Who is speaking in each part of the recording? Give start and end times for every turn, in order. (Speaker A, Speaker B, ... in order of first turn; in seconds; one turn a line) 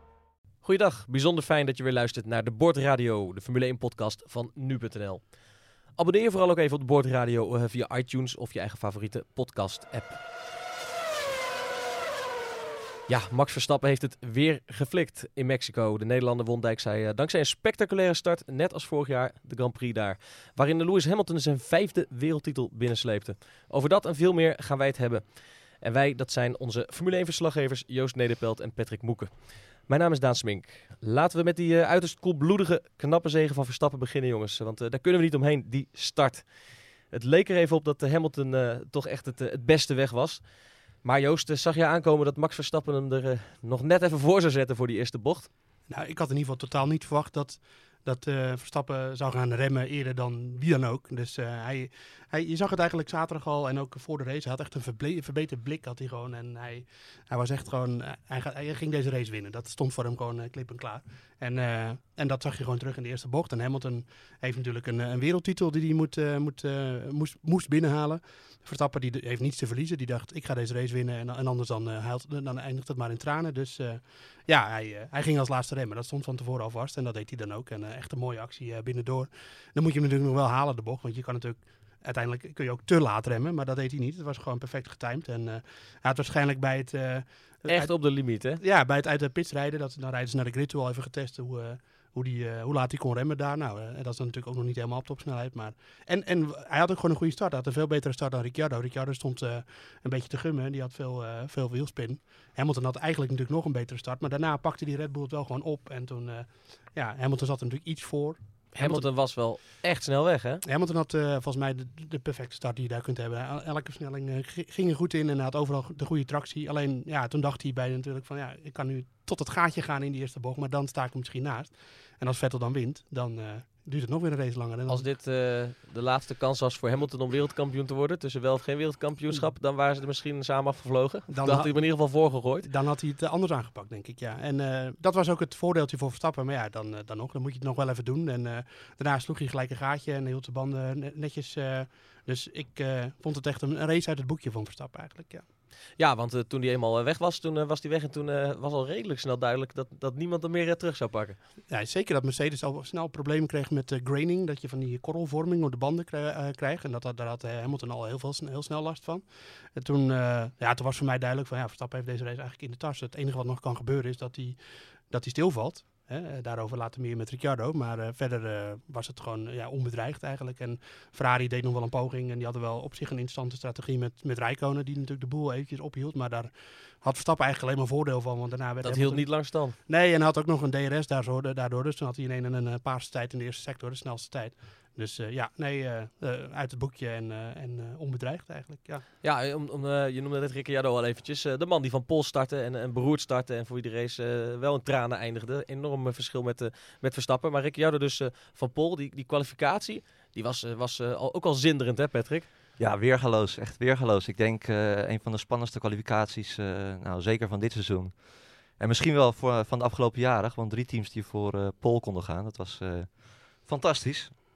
Speaker A: 0.6-5.2
Speaker A: 6.0-10.2
Speaker A: 13.1-36.5
Speaker A: 37.1-40.4
Speaker A: 41.0-45.5
Speaker B: 45.9-87.9
Speaker A: 87.7-88.6
Speaker B: 88.6-109.1
Speaker A: 108.8-110.6
Speaker B: 110.6-125.1
Speaker A: 124.9-132.7
Speaker B: 131.3-145.5
Speaker A: 146.0-151.4
Speaker B: 151.7-159.2
Speaker B: 159.8-164.6
Speaker B: 165.1-189.1
Speaker A: 178.8-179.8
Speaker A: 189.2-202.5
Speaker C: 202.8-214.4